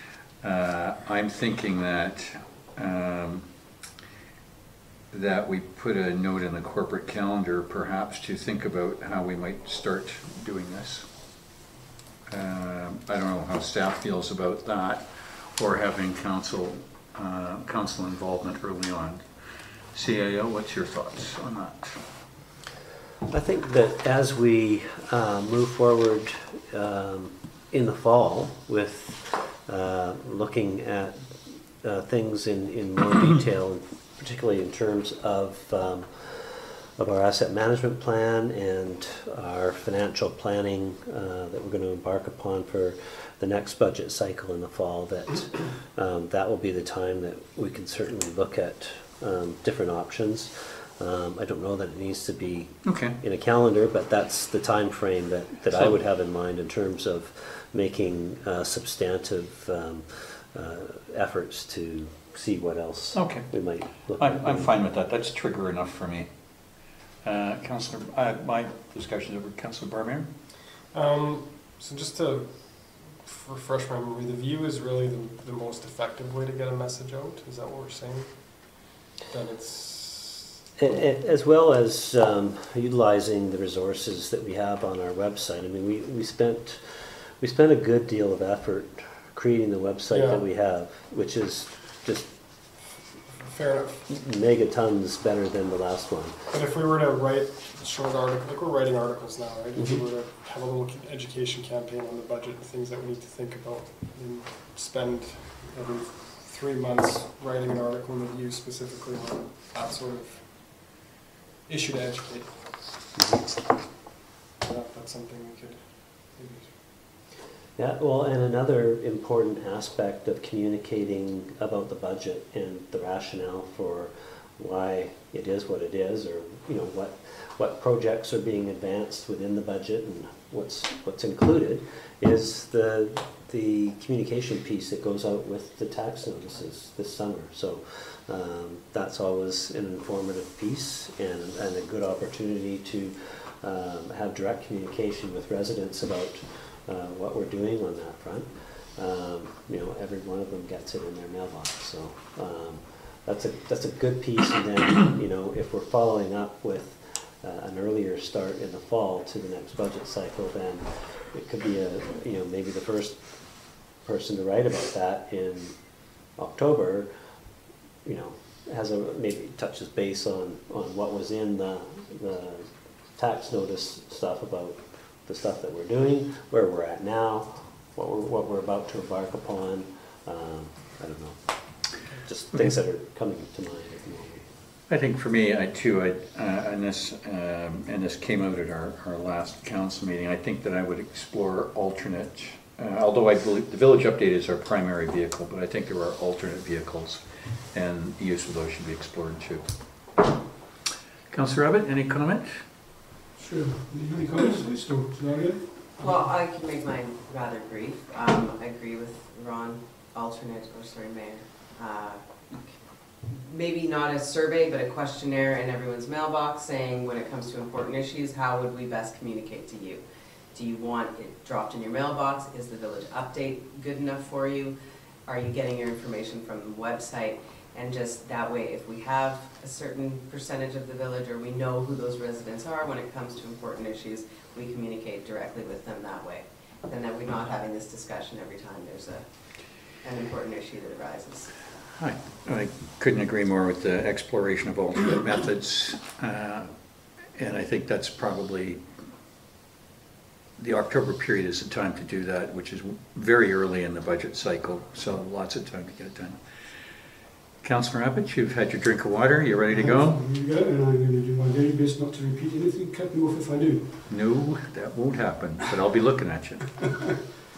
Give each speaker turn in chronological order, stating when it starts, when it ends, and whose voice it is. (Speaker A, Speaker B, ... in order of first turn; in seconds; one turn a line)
Speaker A: 0.4-3.5
Speaker A: 5.1-11.1
Speaker A: 12.3-15.0
Speaker A: 15.6-19.2
Speaker A: 19.9-22.0
Speaker B: 23.3-64.7
Speaker A: 52.8-53.2
Speaker A: 55.7-56.0
Speaker A: 63.1-63.5
Speaker A: 64.0-66.3
Speaker A: 67.2-70.3
Speaker C: 70.9-80.5
Speaker B: 80.8-92.3
Speaker C: 90.1-90.4
Speaker C: 93.4-94.0
Speaker B: 94.1-96.4
Speaker C: 96.5-110.9
Speaker B: 99.8-100.0
Speaker C: 111.7-112.9
Speaker B: 113.2-113.5
Speaker C: 114.6-116.8
Speaker B: 117.8-167.1
Speaker B: 168.0-184.5
Speaker A: 184.9-200.1
Speaker A: 201.3-202.6
Speaker D: 203.3-206.2
Speaker E: 206.0-241.5
Speaker A: 242.0-248.8
Speaker A: 250.6-256.4
Speaker A: 257.6-260.2
Speaker D: 259.7-264.0
Speaker A: 264.1-267.2